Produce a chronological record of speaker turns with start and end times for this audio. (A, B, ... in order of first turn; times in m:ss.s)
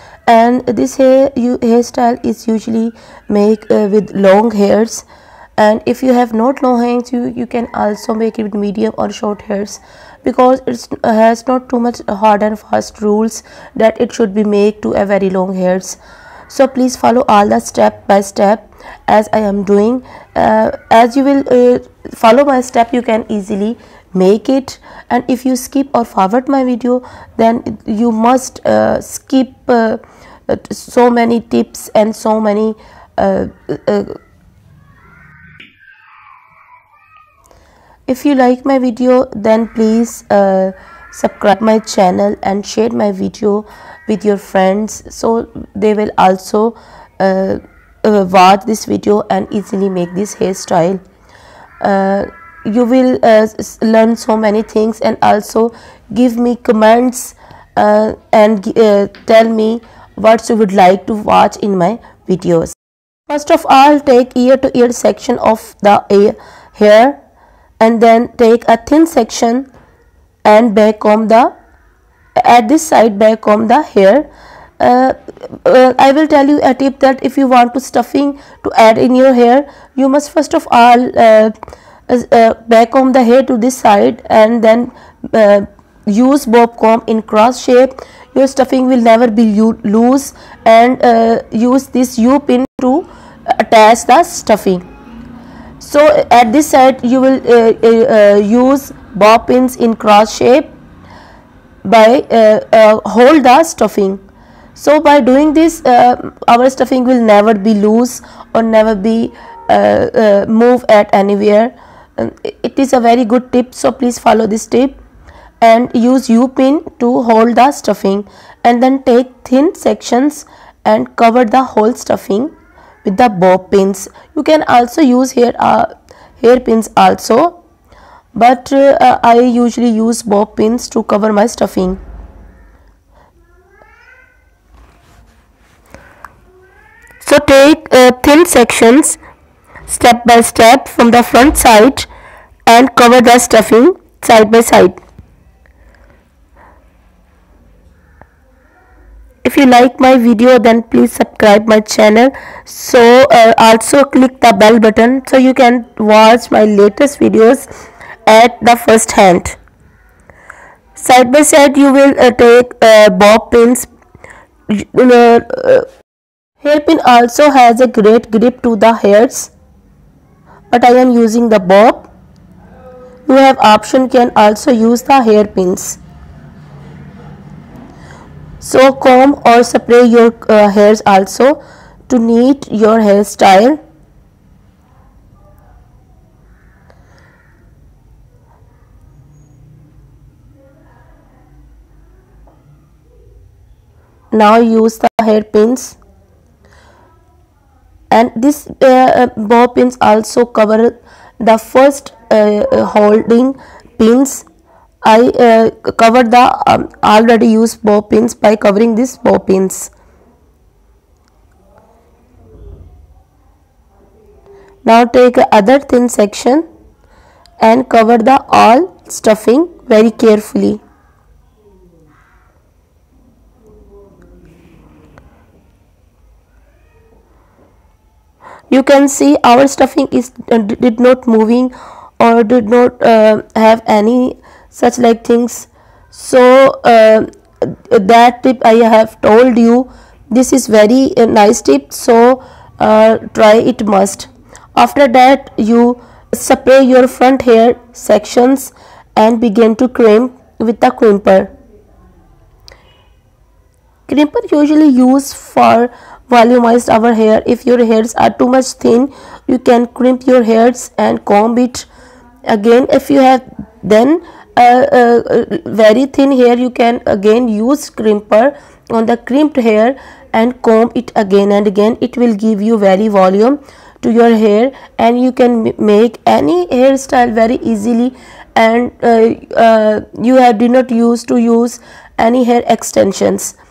0:00.3-0:05.0 A
0:05.6-0:34.2 A
0:38.1-0:51.0 A
0:51.8-1:02.7 A
1:03.3-1:07.2 A
1:07.8-1:09.7 A
1:10.4-1:11.5 A
1:12.4-1:14.3 A
1:14.8-1:21.6 A
1:22.1-1:34.8 A
1:35.8-1:40.7 A
1:41.8-1:44.2 A
1:44.7-1:55.0 A
1:55.6-2:07.6 A
2:08.3-2:12.0 A
2:17.2-2:19.2 A
2:19.9-2:22.1 A
2:22.6-2:25.0 A
2:29.4-2:37.7 A
2:38.2-2:39.6 A
2:41.0-2:43.9 A
2:44.7-2:45.9 A
2:46.6-2:49.5 A
2:50.7-2:52.1 A
2:53.3-2:56.0 A
2:58.6-3:03.8 A
3:14.3-3:16.0 A
3:18.1-3:24.4 A
3:25.0-3:29.9 A
3:34.8-3:36.6 A
3:37.6-3:40.8 A
3:48.7-4:11.5 A
4:14.1-4:21.9 A
4:22.4-4:43.6 A